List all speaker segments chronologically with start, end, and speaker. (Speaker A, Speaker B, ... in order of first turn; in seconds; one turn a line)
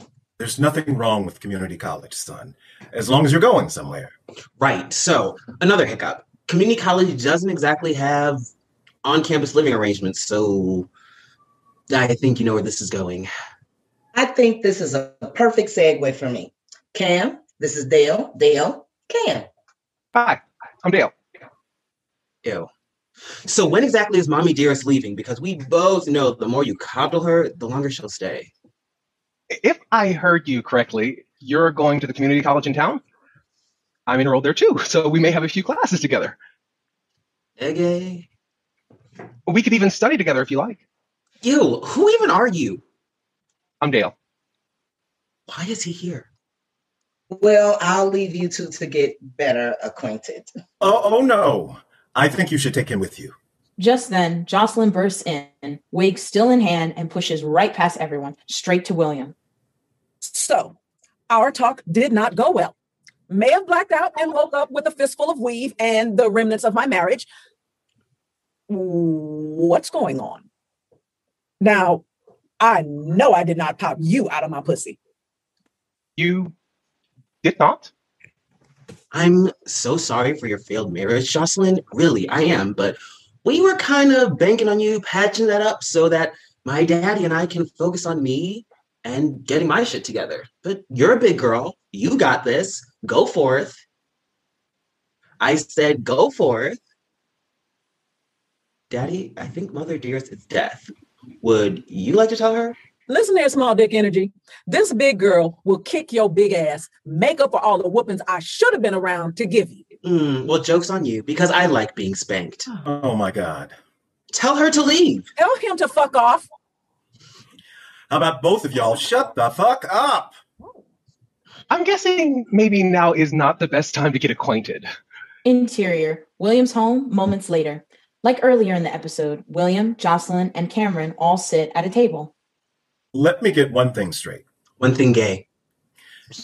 Speaker A: 0.4-4.1
Speaker B: 4.6-8.4
Speaker B: 9.0-10.9
Speaker B: 11.9-13.3
Speaker C: 14.1-19.5
Speaker D: 20.1-21.1
Speaker B: 22.4-22.7
Speaker B: 23.4-28.5
Speaker D: 29.5-33.0
Speaker D: 34.1-36.4
Speaker B: 37.6-38.3
Speaker D: 39.5-40.8
Speaker B: 41.4-42.8
Speaker D: 43.8-44.1
Speaker B: 45.5-46.3
Speaker C: 47.3-50.5
Speaker A: 50.8-53.3
Speaker E: 53.8-59.3
Speaker F: 60.2-60.8
Speaker F: 61.3-62.7
Speaker F: 63.3-67.3
Speaker F: 68.7-70.4
Speaker F: 71.6-72.0
Speaker F: 72.6-75.0
Speaker D: 76.2-76.5
Speaker D: 77.4-77.9
Speaker B: 79.1-93.8
Speaker B: 95.4-96.8
Speaker B: 98.9-100.9
Speaker B: 101.4-102.8
Speaker F: 103.1-109.8
Speaker B: 110.0-112.7
Speaker A: 112.8-113.7
Speaker B: 114.3-115.2
Speaker F: 115.3-116.5
Speaker A: 118.1-120.4
Speaker D: 121.7-124.9
Speaker E: 125.4-132.3
Speaker A: 133.1-134.4
Speaker B: 134.8-135.4